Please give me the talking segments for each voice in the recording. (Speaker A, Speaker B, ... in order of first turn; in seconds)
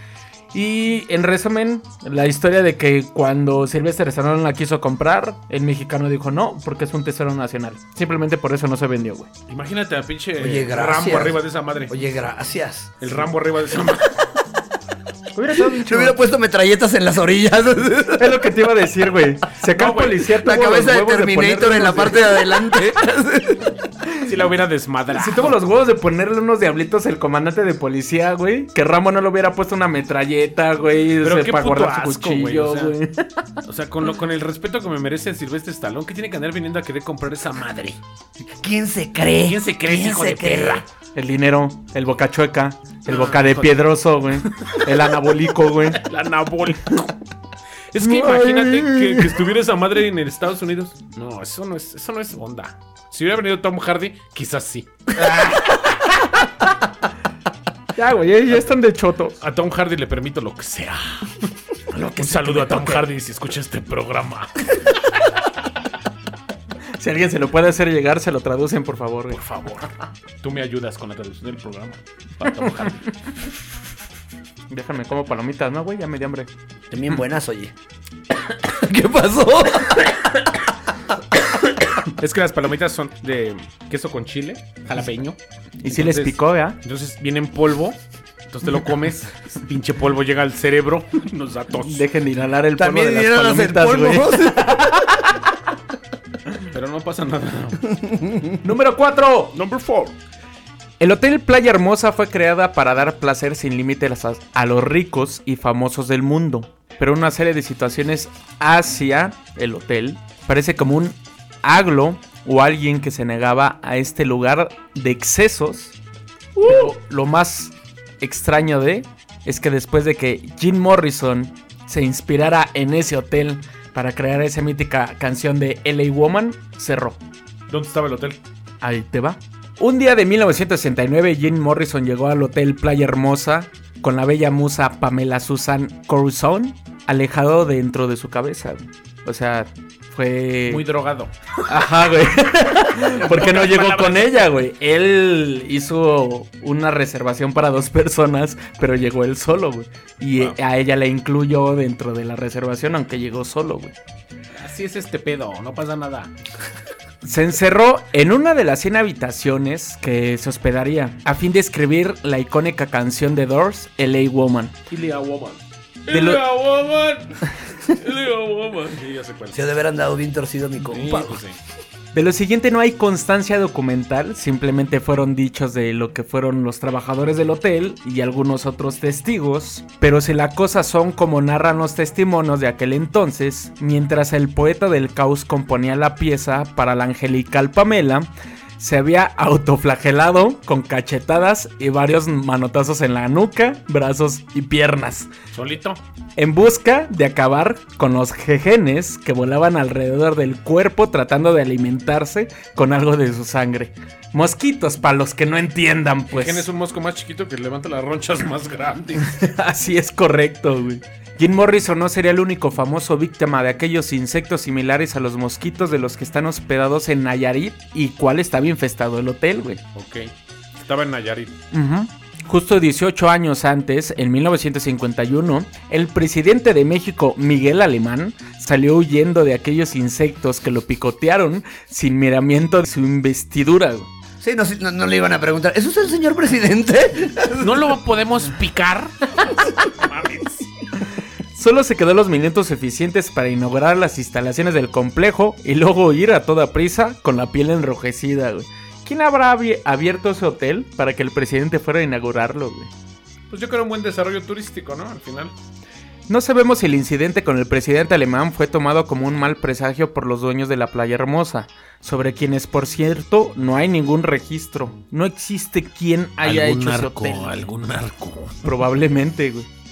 Speaker A: 0.5-9.3, 15.3-16.2, 18.2-22.2, 25.1-33.4, 41.1-46.0, 48.0-49.3, 55.1-56.5, 58.0-59.4, 61.9-63.0, 67.0-69.4, 74.7-76.5, 85.8-86.8, 91.8-95.4, 98.6-99.5, 101.0-116.0, 116.6-127.2, 128.8-140.8, 141.7-153.9, 157.2-164.7, 166.1-166.4, 172.1-195.3, 196.4-206.7, 209.2-219.8, 221.7-234.1, 241.5-252.9, 256.3-267.6, 268.6-269.7
Speaker B: 9.5-11.9, 13.0-14.1, 19.6-20.2, 24.2-25.6, 31.2-33.0, 33.6-38.0, 39.4-40.8, 43.0-43.8, 46.0-47.1, 47.9-54.9, 59.4-61.3, 62.1-64.6, 69.3-69.9, 70.4-73.1, 82.2-92.0, 96.7-97.9, 99.5-100.1, 127.7-128.4, 140.7-141.3, 143.0-144.4, 154.5-156.3, 164.9-169.6, 170.8-171.6, 195.5-196.0, 206.3-209.3, 219.9-221.5, 237.6-240.7, 253.5-255.5, 266.4-268.6
Speaker C: 10.4-13.1, 15.6-18.3, 20.4-23.7, 38.6-40.8, 76.9-77.7, 78.5-80.6, 92.8-94.9, 98.0-98.5, 169.5-171.4, 234.4-237.9